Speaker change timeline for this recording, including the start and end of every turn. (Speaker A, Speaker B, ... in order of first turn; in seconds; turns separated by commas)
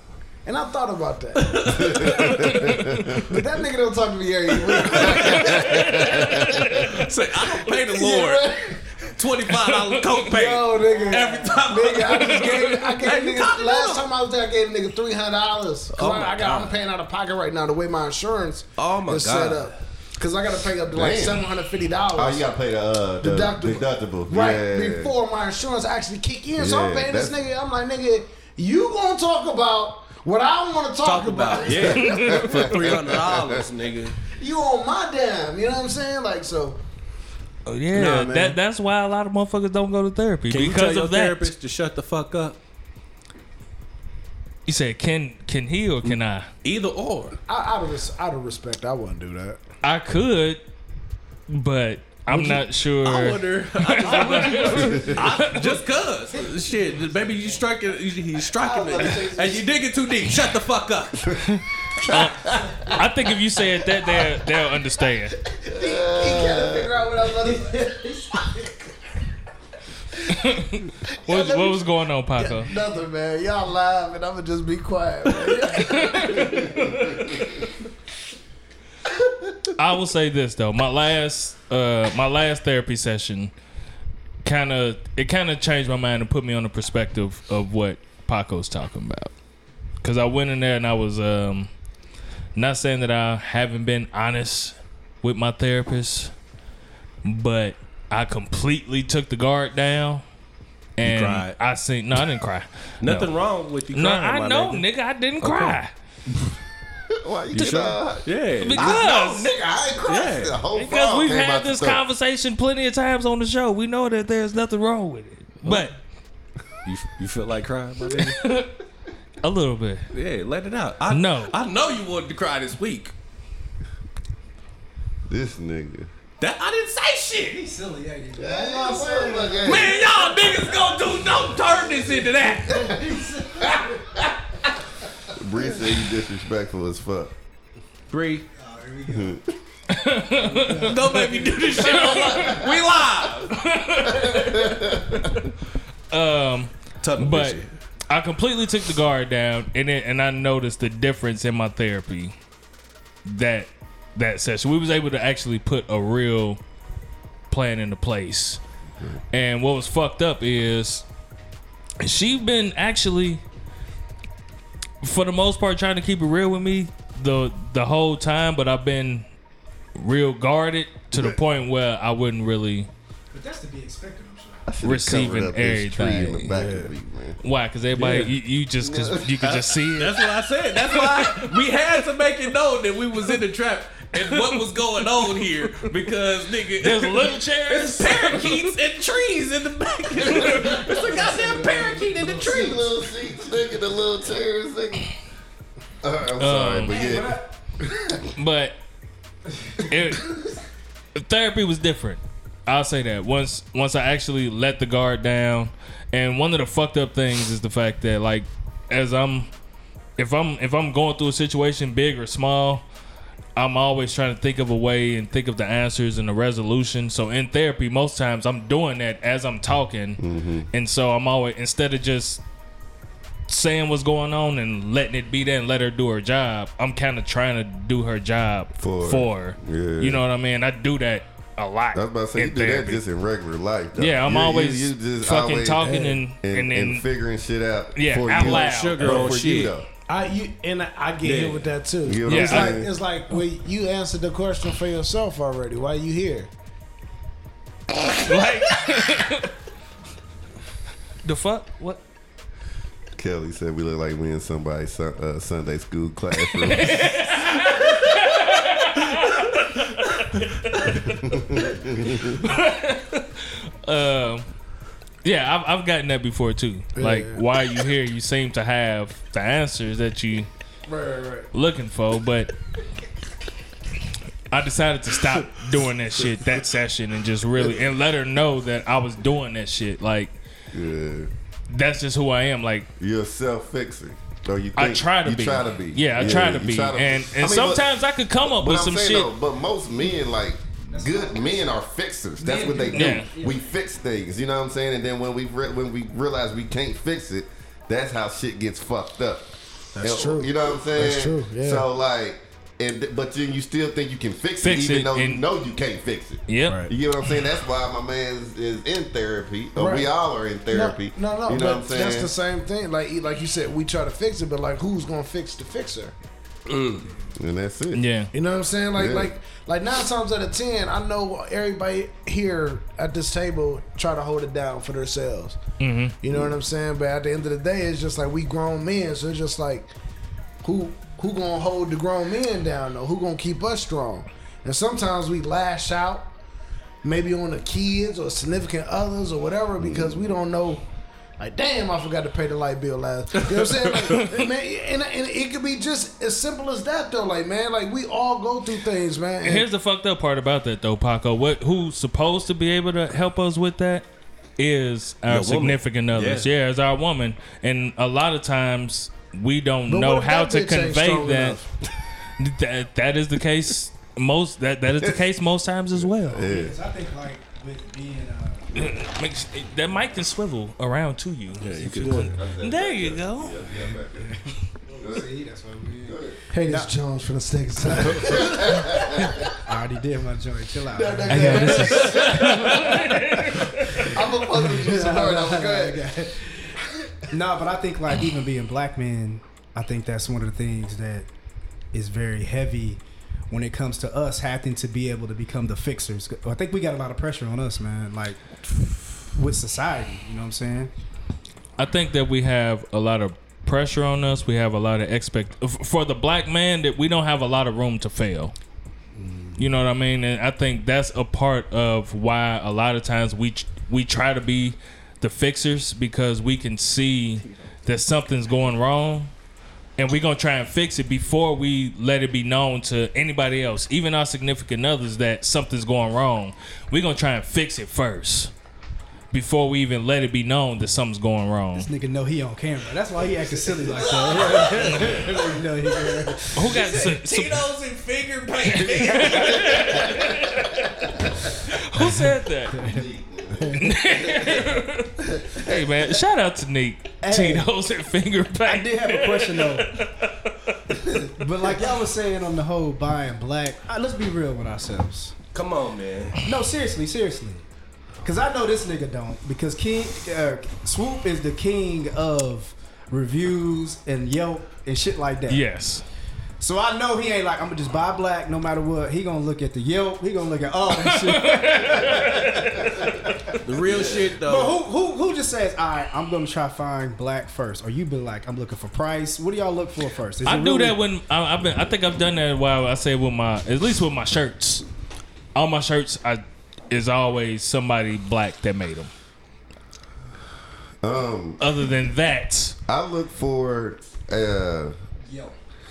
Speaker A: 0.4-7.1, Speaker B: 1.4-2.2, Speaker C: 1.6-3.2, Speaker D: 2.2-3.2, Speaker B: 4.8-14.1, Speaker C: 4.9-6.9, Speaker A: 7.8-8.8, Speaker D: 9.5-10.0, Speaker A: 10.2-22.4, Speaker D: 12.1-12.5, Speaker B: 15.9-16.8, Speaker B: 18.8-19.7, Speaker C: 20.9-21.5, Speaker C: 22.1-25.1, Speaker A: 23.2-32.4, Speaker C: 26.6-27.3, Speaker B: 31.0-34.2, Speaker C: 31.7-33.6, Speaker D: 31.9-32.7, Speaker A: 34.3-36.8, Speaker D: 37.6-41.5, Speaker B: 37.9-38.5, Speaker A: 37.9-38.5, Speaker B: 40.5-42.6, Speaker D: 44.7-46.5, Speaker B: 46.6-47.4, Speaker A: 47.5-49.6, Speaker D: 49.8-50.6, Speaker D: 51.5-55.8, Speaker B: 52.3-61.3, Speaker A: 54.1-54.7, Speaker C: 54.8-55.2, Speaker A: 58.5-59.8, Speaker D: 61.4-65.3, Speaker C: 61.9-62.9, Speaker A: 65.5-68.9, Speaker C: 65.7-67.0, Speaker D: 70.3-72.7, Speaker A: 71.2-76.9, Speaker D: 75.5-77.7, Speaker D: 79.7-83.5, Speaker D: 84.4-89.3, Speaker D: 90.0-91.7, Speaker D: 92.5-96.3, Speaker D: 97.2-100.2, Speaker D: 101.0-103.3, Speaker B: 101.0-101.6, Speaker B: 103.0-104.8, Speaker D: 103.9-105.9, Speaker B: 105.4-105.8, Speaker C: 107.1-112.0, Speaker B: 107.5-109.0, Speaker D: 107.5-108.0, Speaker D: 108.6-109.5, Speaker B: 110.0-110.6, Speaker D: 110.7-116.0, Speaker B: 115.6-115.9, Speaker B: 116.8-118.4, Speaker D: 118.0-118.8, Speaker D: 119.4-120.1, Speaker B: 120.1-123.1, Speaker D: 121.1-121.5, Speaker C: 125.3-126.1, Speaker B: 126.4-127.6, Speaker E: 127.5-132.1, Speaker C: 128.4-130.0, Speaker B: 129.6-132.8, Speaker E: 132.7-134.2, Speaker C: 132.7-134.3, Speaker C: 135.3-137.3, Speaker B: 138.1-138.4, Speaker E: 138.6-139.4, Speaker C: 139.1-139.4, Speaker D: 139.9-145.2, Speaker B: 140.7-143.6, Speaker C: 141.9-142.5, Speaker C: 144.1-145.5, Speaker D: 146.1-152.3, Speaker B: 147.0-147.7, Speaker D: 153.2-156.6, Speaker D: 157.5-158.6, Speaker D: 159.3-161.0, Speaker D: 162.0-163.4, Speaker D: 165.0-169.3, Speaker D: 169.9-172.9, Speaker E: 173.3-174.7, Speaker C: 174.7-177.4, Speaker D: 174.8-176.6, Speaker B: 176.5-176.9, Speaker D: 177.4-180.2, Speaker B: 177.9-178.3, Speaker C: 178.8-179.8, Speaker B: 180.0-192.9, Speaker D: 180.8-181.8, Speaker D: 184.2-185.9, Speaker D: 186.8-188.7, Speaker D: 190.2-190.8, Speaker E: 191.0-192.2, Speaker C: 192.3-195.1, Speaker C: 196.0-198.2, Speaker D: 196.4-197.0, Speaker E: 196.9-197.5, Speaker D: 198.2-198.8, Speaker E: 199.6-199.8, Speaker D: 199.8-200.4, Speaker D: 201.1-209.5, Speaker D: 210.2-212.8, Speaker D: 213.6-222.4, Speaker C: 220.2-220.7, Speaker D: 223.5-233.0, Speaker C: 228.8-230.2, Speaker C: 231.9-239.9, Speaker D: 233.9-237.0, Speaker A: 235.8-236.1, Speaker D: 237.9-239.3, Speaker B: 238.4-239.7, Speaker A: 240.1-246.5, Speaker B: 241.2-241.7, Speaker C: 242.0-242.9, Speaker D: 242.2-242.8, Speaker D: 248.1-249.5, Speaker D: 251.2-252.0, Speaker C: 253.2-257.9, Speaker D: 256.5-261.4, Speaker C: 261.2-262.5, Speaker D: 262.0-264.5, Speaker D: 265.2-270.5, Speaker A: 266.9-267.4, Speaker A: 270.9-271.5, Speaker D: 271.5-272.5, Speaker D: 274.5-280.3, Speaker C: 280.7-281.3, Speaker D: 281.7-282.9, Speaker C: 283.0-287.9, Speaker D: 284.8-289.3, Speaker C: 288.4-312.3, Speaker E: 290.9-291.6, Speaker E: 292.4-293.6, Speaker D: 292.9-293.3, Speaker A: 300.0-301.9, Speaker D: 304.6-305.4, Speaker D: 306.5-306.9, Speaker E: 306.6-306.9, Speaker A: 309.8-310.1, Speaker A: 310.7-316.1, Speaker B: 316.7-317.1, Speaker C: 317.3-318.0, Speaker D: 317.9-318.3, Speaker A: 318.3-325.6, Speaker C: 318.9-319.3, Speaker D: 325.8-326.1, Speaker A: 326.2-329.9, Speaker A: 330.6-336.3, Speaker A: 337.0-340.8, Speaker C: 339.8-340.3, Speaker A: 341.4-349.6, Speaker B: 343.5-344.1, Speaker D: 344.1-344.4, Speaker D: 349.4-354.1, Speaker D: 354.6-361.6, Speaker B: 355.3-356.5, Speaker A: 359.9-361.7, Speaker D: 362.4-366.6, Speaker C: 366.3-366.8, Speaker E: 366.4-368.8, Speaker D: 368.7-373.7, Speaker B: 371.6-372.3, Speaker C: 372.0-374.3, Speaker E: 373.9-376.9, Speaker C: 375.0-375.3, Speaker C: 376.1-376.4, Speaker A: 376.5-379.0, Speaker C: 378.2-379.5, Speaker E: 379.6-386.8, Speaker A: 380.9-383.1, Speaker D: 381.3-384.2, Speaker B: 382.0-382.4, Speaker A: 383.9-386.1, Speaker E: 387.3-391.3, Speaker E: 391.9-400.9, Speaker D: 401.8-408.5, Speaker E: 409.2-409.6, Speaker D: 409.6-419.3, Speaker D: 420.0-428.5, Speaker D: 429.3-431.9, Speaker E: 431.7-437.0, Speaker B: 434.1-435.3, Speaker D: 434.8-435.2, Speaker D: 436.5-437.6, Speaker B: 436.6-440.2, Speaker D: 438.8-442.8, Speaker E: 442.0-443.0, Speaker C: 442.8-444.6, Speaker E: 443.6-443.8, Speaker D: 443.7-451.3, Speaker E: 447.2-447.7, Speaker E: 448.6-449.9, Speaker E: 451.0-455.4, Speaker B: 455.5-456.4, Speaker E: 456.4-457.6, Speaker E: 458.2-465.6, Speaker D: 465.5-466.0, Speaker E: 466.6-481.0, Speaker D: 470.9-473.0, Speaker B: 473.6-474.8, Speaker D: 480.4-484.8, Speaker D: 485.5-489.1, Speaker C: 491.0-491.6, Speaker D: 491.6-492.8, Speaker C: 492.9-494.9, Speaker E: 495.2-495.5